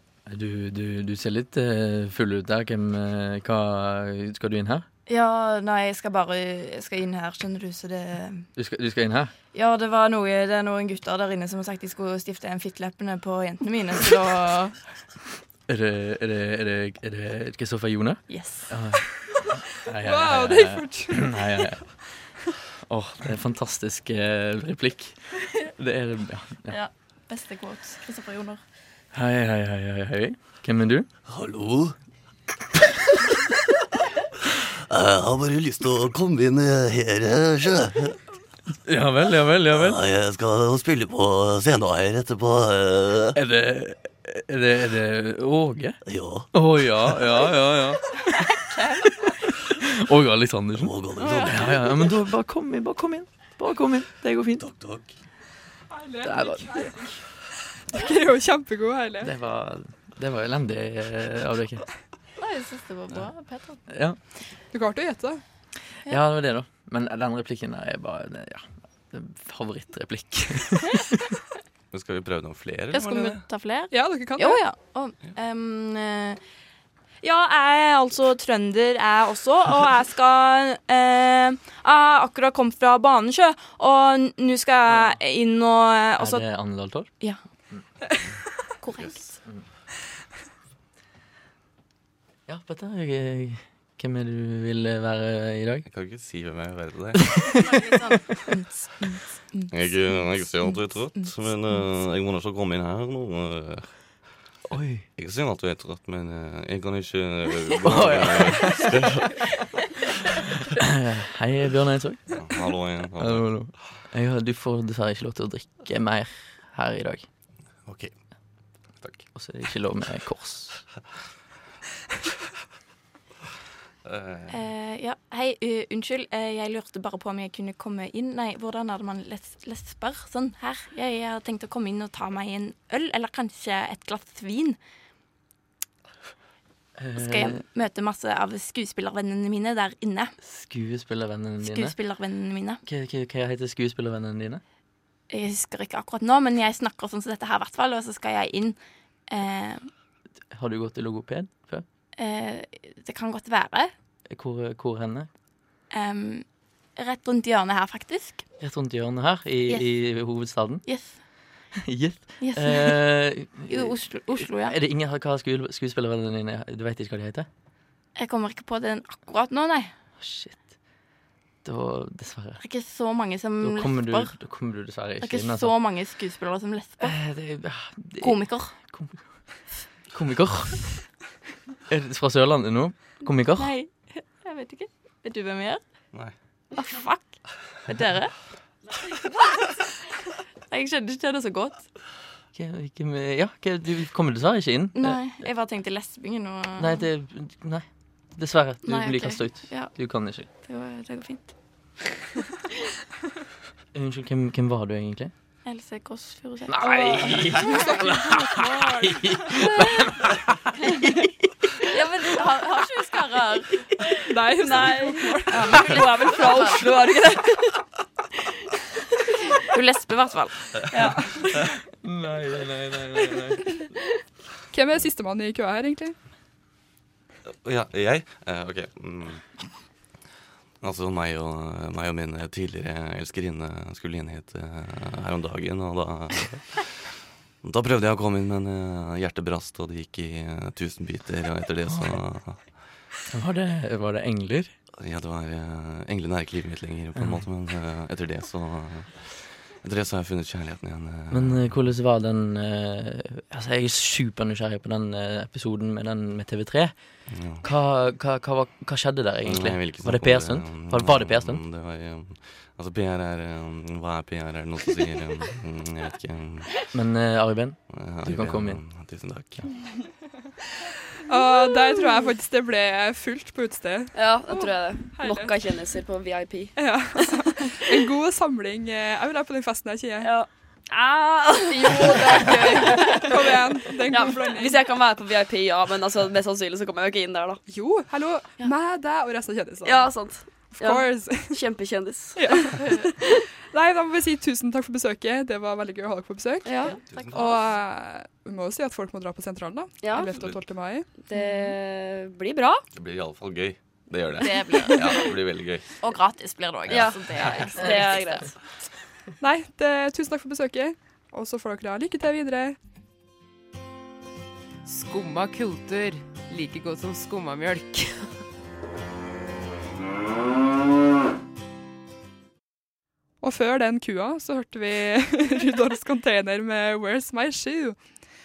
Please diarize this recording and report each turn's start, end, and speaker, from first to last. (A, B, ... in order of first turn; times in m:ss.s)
0:00.3-0:04.9 A
0:05.1-0:08.5 B
0:08.6-0:09.3 A
0:09.5-0:14.8 B
0:15.7-0:19.1 A
0:18.3-0:18.8 B
0:19.7-0:21.9 A
0:20.0-0:21.7 C
0:22.8-0:26.8 A
0:26.7-0:28.6 B
0:29.1-0:31.1 A
0:31.3-0:32.0 D
0:34.9-0:38.2 D
0:38.9-0:40.0 A
0:39.7-0:43.4 D
0:43.4-0:46.0 A
0:46.0-0:46.5 D
0:46.5-0:48.0 A
0:48.6-0:49.3 B
0:49.7-0:54.6 A
0:50.8-0:52.1 D
0:51.2-0:51.7 B
0:54.6-0:55.1 D
0:55.9-0:57.1 C
0:56.2-0:57.0 A
0:57.9-0:59.3 C
0:59.2-1:01.9 A
1:02.4-1:03.8 B
1:03.9-1:04.2 A
1:04.7-1:05.4 C
1:06.0-1:11.3 A
1:11.9-1:13.4 E
1:12.9-1:16.4 B
1:13.9-1:14.6 C
1:17.2-1:26.5 B
1:26.2-1:27.1 A
1:28.8-1:29.4 B
1:32.5-1:35.8 A
1:35.9-1:37.4 E
1:37.4-1:37.8 A
1:37.5-1:41.8 B
1:39.7-1:43.9 E
1:44.7-1:45.1 A
1:45.2-1:49.4 E
1:47.8-1:49.4 A
1:50.7-1:52.4 A
1:52.3-1:53.6 E
1:53.2-1:57.3 A
1:57.9-1:58.1 E
1:59.0-1:59.3 E
1:59.4-2:00.8 A
2:04.0-2:04.6 E
2:04.5-2:14.8 B
2:17.0-2:17.6 A
2:17.2-2:20.3 B
2:20.4-2:22.0 A
2:21.6-2:22.8 B
2:22.9-2:24.6 A
2:25.3-2:28.8 B
2:29.3-2:29.9 B
2:30.5-2:31.8 A
2:32.2-2:33.9 B
2:34.3-2:35.3 A
2:35.9-2:38.4 B
2:38.6-2:40.8 A
2:40.8-2:41.2 B
2:41.8-2:47.5 A
2:42.4-2:43.0 B
2:43.7-2:44.8 B
2:48.2-2:49.9 B
2:50.2-2:50.6 A
2:51.6-2:52.6 A
2:52.6-2:54.3 B
2:53.6-2:55.8 A
2:55.2-2:57.2 B
2:57.0-2:59.3 A
2:58.2-2:58.7 B
3:00.1-3:01.0 A
3:01.9-3:03.7 A
3:03.6-3:05.8 B
3:06.7-3:07.3 B
3:07.8-3:08.4 B
3:10.7-3:11.8 B
3:12.5-3:15.3 A
3:15.0-3:17.1 B
3:16.8-3:20.5 A
3:18.8-3:21.5 B
3:23.9-3:25.3 A
3:25.6-3:30.0 B
3:26.7-3:31.2 A
3:27.7-3:28.1 C
3:31.8-3:34.0 B
3:34.2-3:35.8 C
3:34.6-3:37.8 F
3:35.5-3:37.0 B
3:39.6-3:41.1 B
3:40.9-3:41.2 F
3:41.4-3:43.9 A
3:44.7-3:46.2 C
3:47.6-3:49.4 E
3:50.8-3:57.1 E
3:57.6-4:02.7 E
4:01.9-4:02.2 A
4:03.3-4:04.7 A
4:05.0-4:11.7 E
4:07.2-4:07.4 A
4:11.3-4:21.6 A
4:17.3-4:17.6 E
4:19.5-4:26.8 E
4:26.9-4:28.8 A
4:27.9-4:29.8 E
4:31.2-4:35.6 C
4:34.1-4:38.0 F
4:36.8-4:40.3 C
4:40.2-4:47.6 F
4:41.7-4:44.8 C
4:47.7-4:50.1 C
4:49.8-4:53.4 F
4:50.7-4:51.6 C
4:52.4-4:56.7 C
4:56.6-4:57.0 F
4:57.1-4:57.6 E
4:57.3-5:01.1 C
5:00.0-5:00.3 F
5:00.3-5:00.6 E
5:01.3-5:02.8 F
5:01.3-5:01.7 B
5:03.0-5:05.9 E
5:04.4-5:05.4 B
5:06.0-5:08.5 B
5:06.9-5:07.7 E
5:06.9-5:08.5 F
5:09.4-5:12.8 C
5:14.8-5:18.4 G
5:23.4-5:28.0 C